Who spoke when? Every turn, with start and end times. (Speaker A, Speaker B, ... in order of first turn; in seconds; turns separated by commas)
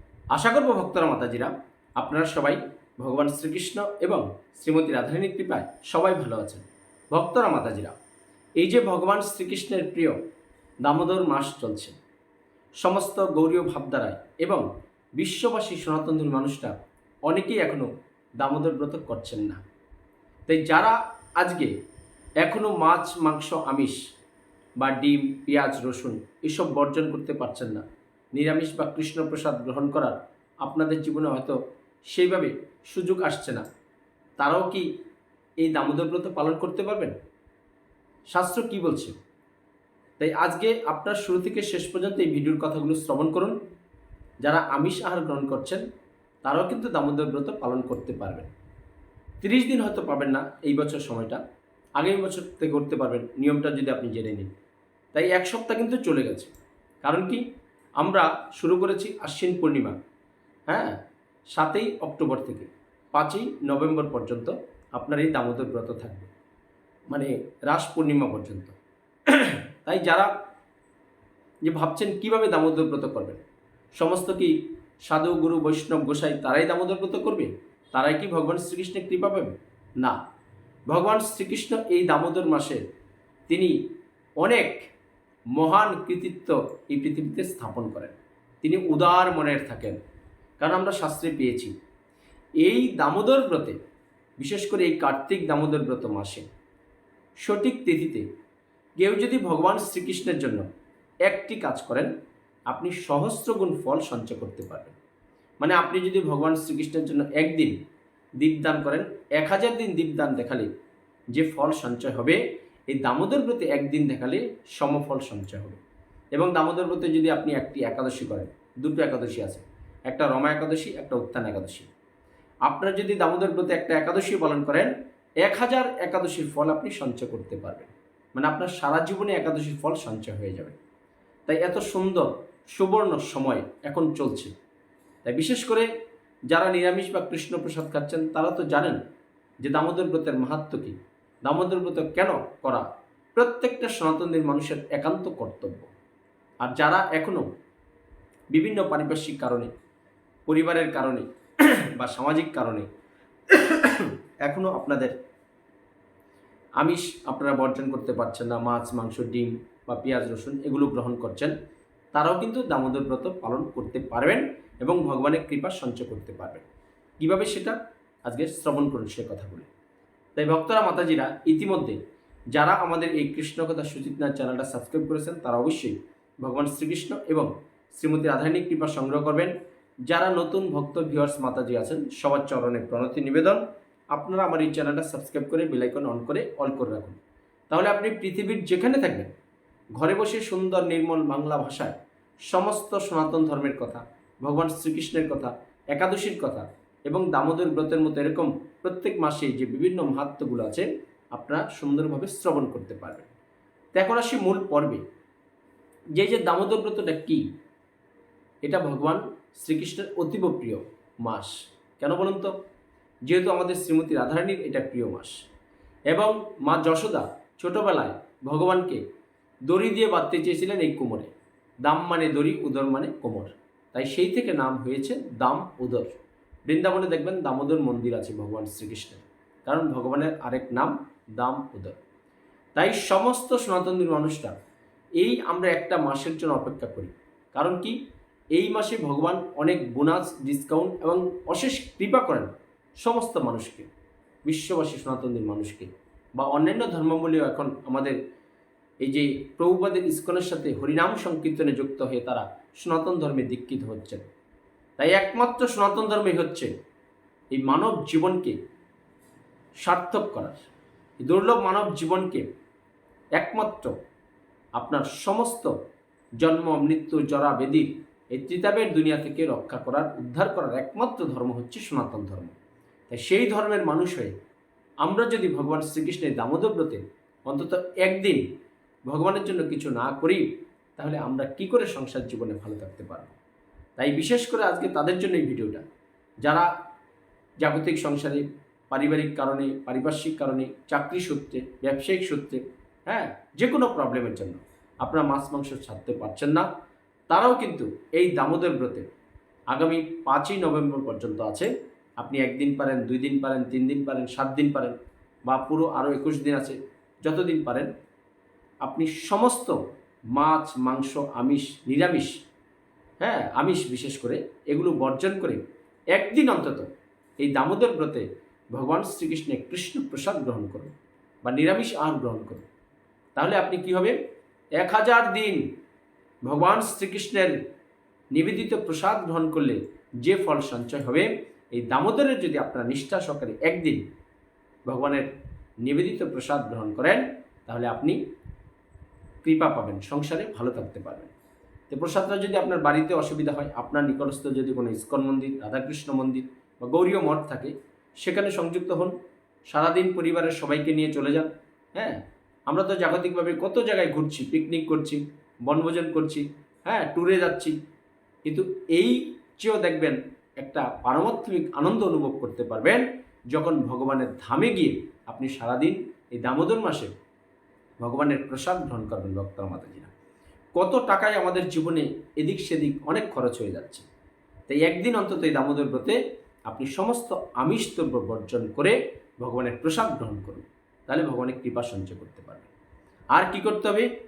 Speaker A: 0.3-8.0, Speaker A: 8.6-10.2, Speaker A: 10.8-12.0, Speaker A: 12.8-14.7, Speaker A: 15.2-16.7, Speaker A: 17.3-17.9, Speaker A: 18.4-19.6, Speaker A: 20.5-21.7, Speaker A: 22.4-24.0, Speaker A: 24.8-31.6, Speaker A: 32.1-33.6, Speaker A: 34.4-34.9, Speaker A: 35.6-37.1, Speaker A: 38.3-39.1, Speaker A: 40.2-43.5, Speaker A: 44.4-45.8, Speaker A: 46.4-48.5, Speaker A: 49.4-51.4, Speaker A: 52.0-54.5, Speaker A: 55.1-56.5, Speaker A: 57.0-57.4, Speaker A: 58.0-60.0, Speaker A: 60.7-61.0, Speaker A: 61.5-66.3, Speaker A: 67.1-68.8, Speaker A: 69.3-70.3, Speaker A: 71.6-73.4, Speaker A: 74.0-80.2, Speaker A: 80.9-82.8, Speaker A: 83.5-83.8, Speaker A: 84.4-84.9, Speaker A: 85.5-90.0, Speaker A: 90.6-91.7, Speaker A: 92.6-93.8, Speaker A: 94.4-96.5, Speaker A: 97.4-98.2, Speaker A: 99.0-100.7, Speaker A: 101.3-102.1, Speaker A: 102.7-104.9, Speaker A: 105.6-107.8, Speaker A: 108.4-110.7, Speaker A: 111.3-115.8, Speaker A: 116.3-121.9, Speaker A: 122.7-130.8, Speaker A: 131.5-134.5, Speaker A: 135.2-135.9, Speaker A: 136.5-139.0, Speaker A: 139.6-145.9, Speaker A: 146.6-147.5, Speaker A: 148.5-149.7, Speaker A: 150.5-152.9, Speaker A: 153.5-155.2, Speaker A: 156.8-161.5, Speaker A: 162.1-166.6, Speaker A: 167.2-169.7, Speaker A: 170.4-172.0, Speaker A: 172.5-179.5, Speaker A: 180.1-187.2, Speaker A: 187.7-189.3, Speaker A: 190.0-192.0, Speaker A: 192.5-203.3, Speaker A: 203.9-205.0, Speaker A: 206.2-207.4, Speaker A: 208.6-212.5, Speaker A: 213.3-215.4, Speaker A: 216.1-219.0, Speaker A: 219.7-221.3, Speaker A: 221.8-232.0, Speaker A: 232.8-234.5, Speaker A: 235.2-238.0, Speaker A: 238.5-243.9, Speaker A: 244.5-248.2, Speaker A: 249.0-254.2, Speaker A: 255.0-256.7, Speaker A: 257.5-258.6, Speaker A: 259.8-260.7, Speaker A: 261.2-262.5, Speaker A: 263.4-263.9, Speaker A: 264.8-265.7, Speaker A: 266.4-272.6, Speaker A: 273.1-274.3, Speaker A: 275.0-278.4, Speaker A: 279.1-283.4, Speaker A: 284.0-285.8, Speaker A: 286.4-286.7, Speaker A: 287.6-296.7, Speaker A: 297.3-299.1, Speaker A: 299.7-304.9, Speaker A: 305.5-307.9, Speaker A: 308.8-309.8, Speaker A: 310.3-312.3, Speaker A: 313.2-316.9, Speaker A: 317.4-320.9, Speaker A: 321.4-322.6, Speaker A: 323.4-324.2, Speaker A: 324.8-325.6, Speaker A: 326.4-327.6, Speaker A: 328.3-334.0, Speaker A: 334.9-335.3, Speaker A: 335.8-338.2, Speaker A: 339.4-341.3, Speaker A: 341.9-349.1, Speaker A: 349.7-357.8, Speaker A: 358.5-367.1, Speaker A: 368.0-370.1, Speaker A: 370.8-374.1, Speaker A: 374.7-382.7, Speaker A: 383.3-384.1